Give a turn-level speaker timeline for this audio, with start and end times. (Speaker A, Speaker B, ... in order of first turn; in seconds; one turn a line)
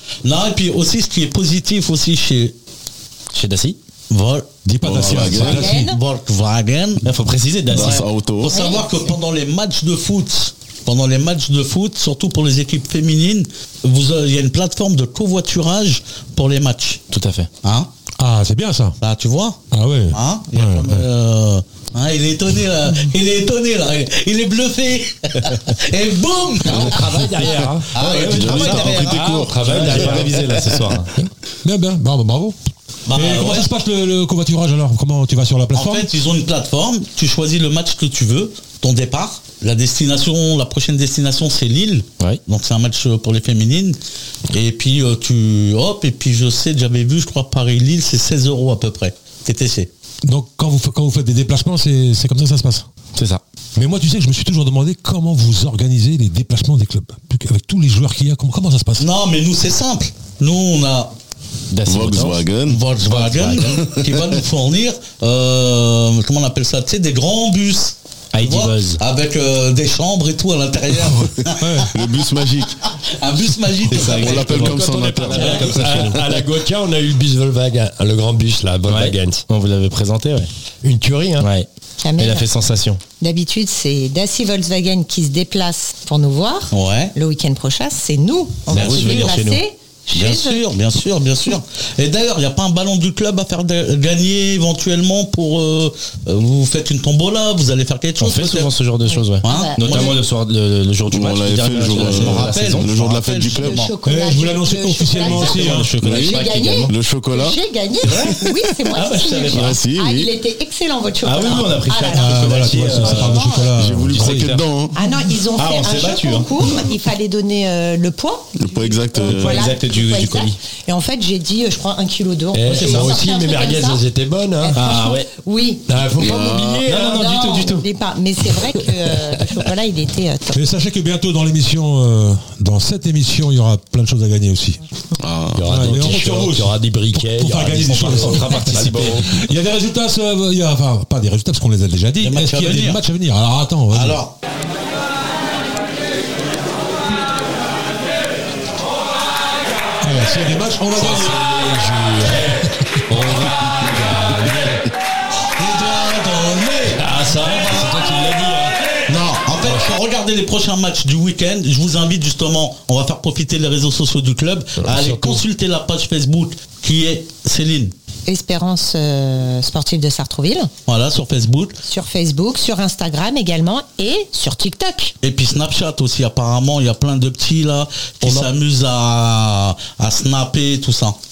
Speaker A: 0.2-2.5
Speaker B: 3.3-3.8
Speaker A: 4.1-7.1
Speaker C: 4.6-6.0
Speaker D: 4.8-5.7
Speaker E: 5.4-6.0
Speaker B: 7.0-8.1
Speaker D: 7.7-8.5
Speaker A: 7.7-17.0
Speaker E: 8.5-8.9
Speaker B: 17.1-17.5
Speaker A: 17.6-17.9
Speaker C: 18.2-18.9
Speaker A: 19.0-27.2
Speaker C: 19.7-21.0
Speaker F: 26.6-30.5
Speaker A: 27.9-29.3
Speaker D: 28.1-30.8
Speaker B: 29.5-31.1
Speaker C: 31.6-32.5
Speaker A: 33.1-33.7
Speaker C: 33.1-36.1
Speaker A: 35.7-44.0
Speaker A: 44.5-49.9
Speaker C: 50.2-52.9
Speaker B: 53.1-53.4
Speaker C: 53.8-59.0
Speaker A: 59.0-61.1
Speaker B: 61.7-62.4
Speaker D: 61.9-62.8
Speaker A: 62.7-71.9
Speaker B: 63.0-63.8
Speaker D: 63.8-64.2
Speaker B: 68.3-69.0
Speaker C: 71.6-71.9
Speaker D: 71.9-72.8
Speaker A: 73.0-74.6
Speaker B: 73.9-76.3
Speaker D: 74.0-76.0
Speaker F: 74.5-79.4
Speaker B: 78.9-80.5
Speaker F: 80.8-81.5
Speaker B: 81.4-83.0
Speaker E: 82.0-82.5
Speaker E: 83.2-90.6
Speaker A: 86.7-87.1
Speaker A: 88.7-89.4
Speaker B: 88.7-89.6
Speaker A: 90.1-98.7
Speaker B: 98.2-102.9
Speaker E: 99.1-100.2
Speaker A: 99.4-100.2
Speaker D: 101.1-103.9
Speaker A: 101.9-103.9
Speaker E: 103.5-113.7
Speaker C: 104.0-105.9
Speaker B: 105.2-106.9
Speaker D: 106.0-108.4
Speaker B: 108.0-109.8
Speaker D: 109.5-110.3
Speaker B: 111.2-114.7
Speaker C: 112.1-114.5
Speaker D: 113.7-114.9
Speaker E: 114.9-124.0
Speaker B: 115.5-116.8
Speaker D: 118.5-119.7
Speaker B: 119.2-120.6
Speaker F: 122.5-124.9
Speaker B: 122.7-123.1
Speaker E: 124.6-125.8
Speaker B: 124.7-125.3
Speaker F: 125.9-127.3
Speaker D: 126.2-126.8
Speaker B: 126.9-127.8
Speaker E: 126.9-130.6
Speaker C: 130.5-134.8
Speaker D: 135.2-135.8
Speaker F: 135.6-139.2
Speaker C: 135.7-144.2
Speaker B: 135.7-136.2
Speaker B: 137.9-139.4
Speaker A: 142.2-143.0
Speaker A: 143.9-144.3
Speaker C: 150.0-151.4
Speaker F: 150.9-154.9
Speaker A: 155.6-158.0
Speaker F: 156.9-158.8
Speaker A: 159.1-167.9
Speaker F: 164.8-165.4
Speaker E: 168.3-170.7
Speaker A: 170.9-171.8
Speaker E: 171.8-175.1
Speaker A: 175.2-181.2
Speaker F: 178.2-178.5